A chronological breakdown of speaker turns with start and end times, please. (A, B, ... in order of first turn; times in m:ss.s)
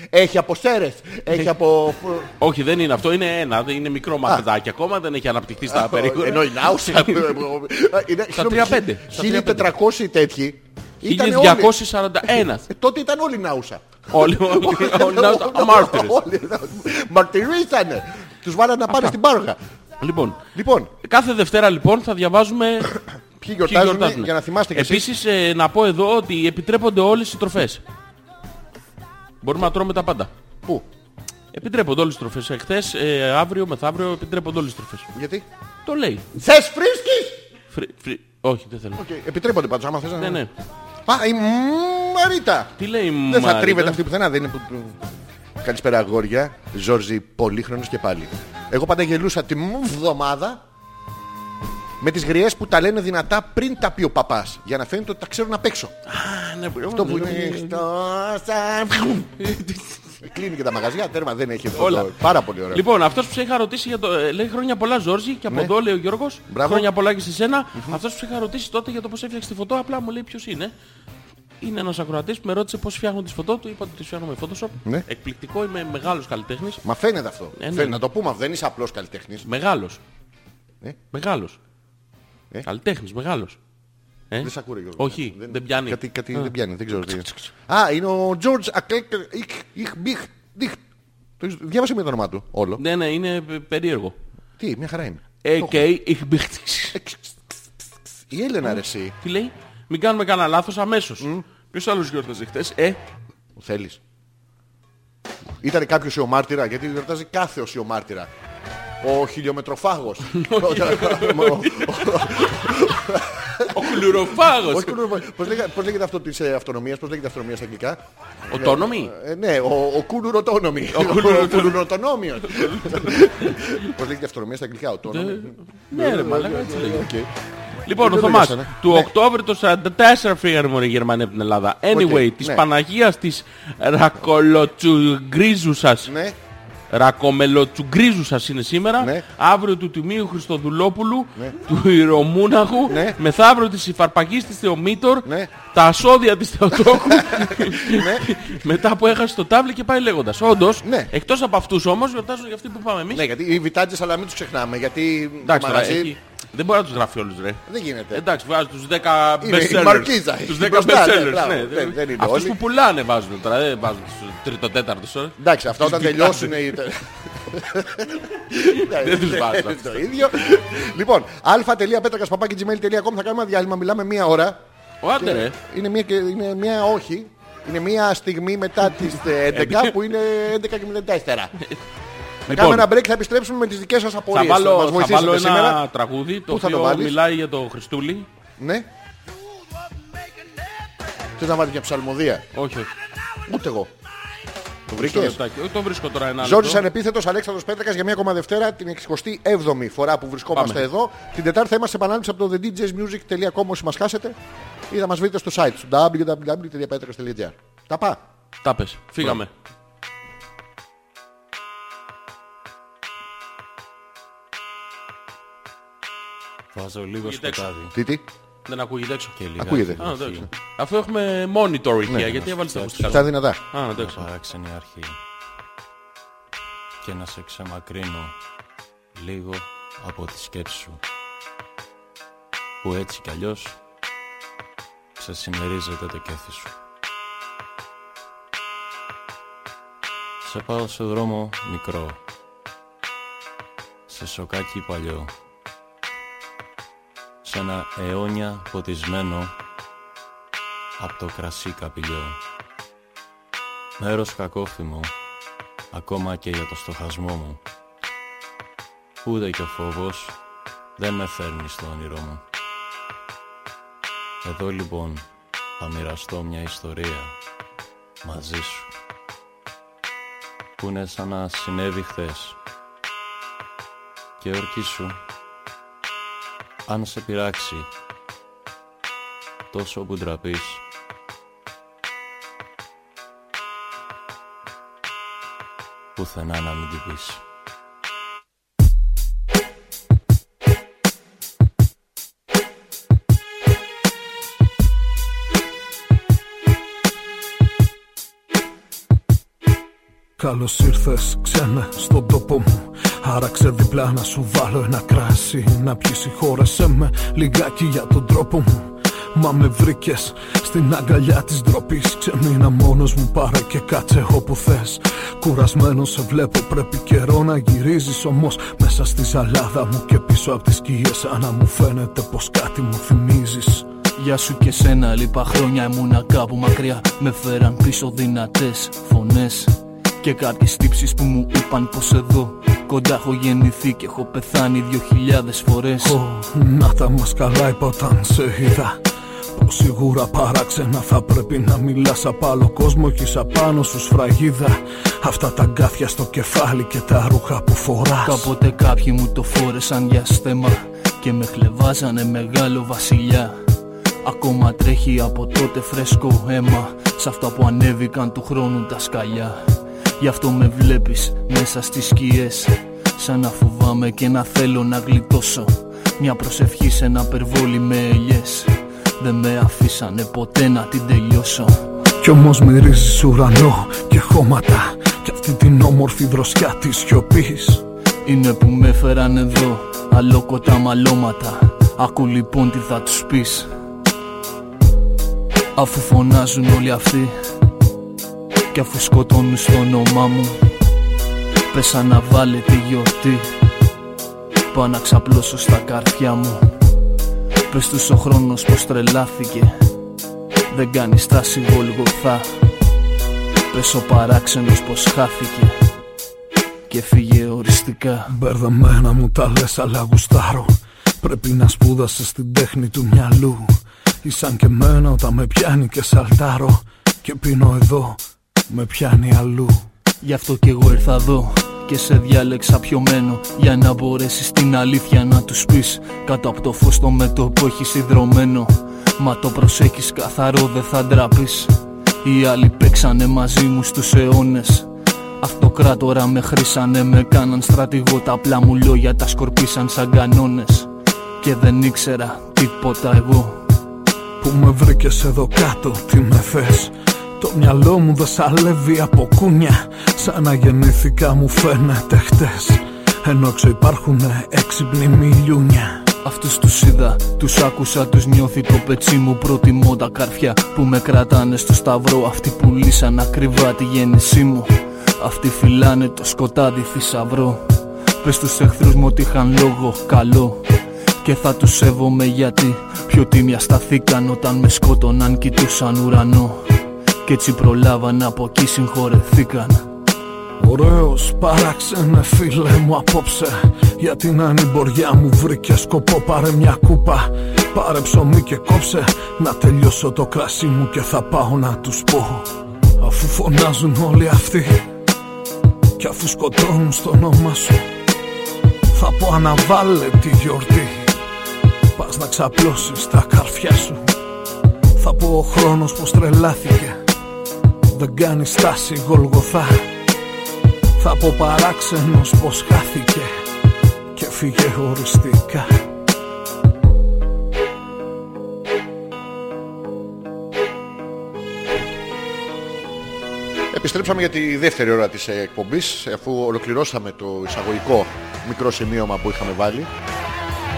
0:00.1-0:02.3 A
0:02.4-0:07.4 B
0:05.6-0:19.6 A
0:08.3-0:09.7 B
0:11.0-0:12.7 B
0:14.1-0:16.2 B
0:18.9-0:19.1 B
0:20.0-0:20.4 B
0:20.5-0:20.9 A
0:21.0-0:23.0 B
0:23.4-0:25.1 A
0:23.6-0:27.8 B
0:29.4-0:30.3 B
0:31.5-0:35.1 B
0:35.1-0:35.4 A
0:35.8-0:36.2 B
0:36.4-0:37.4 A
0:37.7-0:39.0 B
0:39.0-0:40.4 A
0:40.2-0:40.5 B
0:41.0-0:42.7 A
0:42.8-0:44.0 B
0:43.2-0:45.0 A
0:45.6-0:50.6 A
0:52.0-0:55.9 A
0:56.1-0:57.8 B
0:56.9-0:59.3 A
0:59.4-1:00.0 B
1:00.2-1:02.8 A
1:01.7-1:02.1 B
1:02.7-1:10.7 B
1:05.5-1:05.7 A
1:06.5-1:06.9 A
1:07.7-1:08.0 A
1:11.6-1:16.8 B
1:16.8-1:19.4 A
1:17.6-1:18.0 B
1:19.4-1:20.0 B
1:21.1-1:21.6 B
1:22.6-1:23.6 B
1:24.3-1:27.5 B
1:24.4-1:30.8 A
1:31.4-1:32.8 A
1:32.8-1:34.2 B
1:34.6-1:35.8 A
1:35.4-1:37.0 B
1:36.9-1:37.4 A
1:38.3-1:39.1 A
1:38.6-1:43.0 B
1:41.2-1:41.4 A
1:43.6-1:44.0 A
1:45.6-1:48.3 A
1:49.0-2:07.3 A
1:50.3-1:52.7 B
1:53.7-1:55.0 B
1:58.5-1:59.1 B
2:00.9-2:01.8 B
2:02.4-2:03.7 B
2:05.1-2:07.1 B
2:07.8-2:16.1 B
2:08.0-2:09.1 A
2:11.9-2:12.6 A
2:16.0-2:16.4 A
2:16.9-2:33.2 B
2:19.0-2:19.2 A
2:22.9-2:23.2 A
2:25.2-2:25.5 A
2:26.9-2:28.3 A
2:30.8-2:31.1 A
2:33.1-2:36.1 A
2:35.4-2:46.6 B
2:37.7-2:38.2 A
2:39.4-2:42.6 A
2:45.4-2:54.6 A
2:48.6-2:50.0 B
2:55.0-2:55.6 B
2:55.2-3:01.5 A
2:59.5-3:00.0 B
3:02.5-3:02.9 B
3:02.5-3:05.8 A
3:04.3-3:08.3 B
3:06.5-3:07.2 A
3:08.6-3:08.9 A
3:11.4-3:12.4 A
3:12.5-3:12.9 B
3:13.4-3:13.9 A
3:14.9-3:16.8 B
3:14.9-3:15.4 A
3:16.4-3:24.4 A
3:20.5-3:20.8 B
3:24.9-3:28.2 A
3:28.6-3:29.5 B
3:36.7-3:37.9 C
3:37.2-3:37.7 B
3:37.9-3:38.2 A
3:38.7-3:39.4 B
3:39.4-3:40.5 C
3:39.6-3:40.2 A
3:40.0-3:44.2 B
3:42.2-3:45.2 C
3:43.0-3:43.6 A
3:47.0-3:48.4 C
3:49.1-3:51.0 C
3:52.8-3:53.8 C
3:55.2-3:56.7 C
4:00.4-4:02.2 C
4:04.1-4:05.3 C
4:07.4-4:09.6 C
4:11.0-4:12.4 C
4:14.0-4:15.1 C
4:15.9-4:17.6 C
4:19.2-4:20.4 C
4:21.0-4:22.4 C
4:24.4-4:27.3 C
4:28.2-4:28.9 C
4:30.8-4:32.6 C
4:34.4-4:35.2 C
4:36.8-4:37.9 C
4:39.7-4:40.8 C
4:46.2-4:47.4 C
5:00.4-5:23.8 D
5:24.2-5:36.2 E
5:36.0-5:39.0 D
5:39.6-5:48.5 D
5:48.2-5:53.5 E
5:54.2-5:59.6 E
6:00.2-6:11.7 E
6:12.2-6:17.8 D
6:18.2-6:23.7 E
6:25.8-6:27.3 E
6:28.7-6:30.6 E
6:31.7-6:33.5 E
6:34.7-6:36.6 E
6:37.7-6:39.7 E
6:40.7-6:42.5 E
6:43.7-6:45.7 E
6:46.9-6:48.3 E
6:48.3-6:53.7 D
6:54.2-6:59.8 D
7:00.2-7:11.7 E
7:12.2-7:14.9 E
7:15.4-7:20.9 E
7:21.4-7:23.6 E
7:24.4-7:36.0 D
7:36.2-7:47.6 E
7:48.2-7:50.6 E
7:51.2-7:56.7 E
7:57.2-7:59.8 E
8:00.6-8:14.8 D
8:16.0-8:17.8 D
8:18.9-8:21.1 D
8:22.0-8:24.0 D
8:25.0-8:27.0 D
8:27.9-8:29.8 D
8:31.0-8:33.3 D
8:34.1-8:35.7 D
8:43.7-8:49.9 A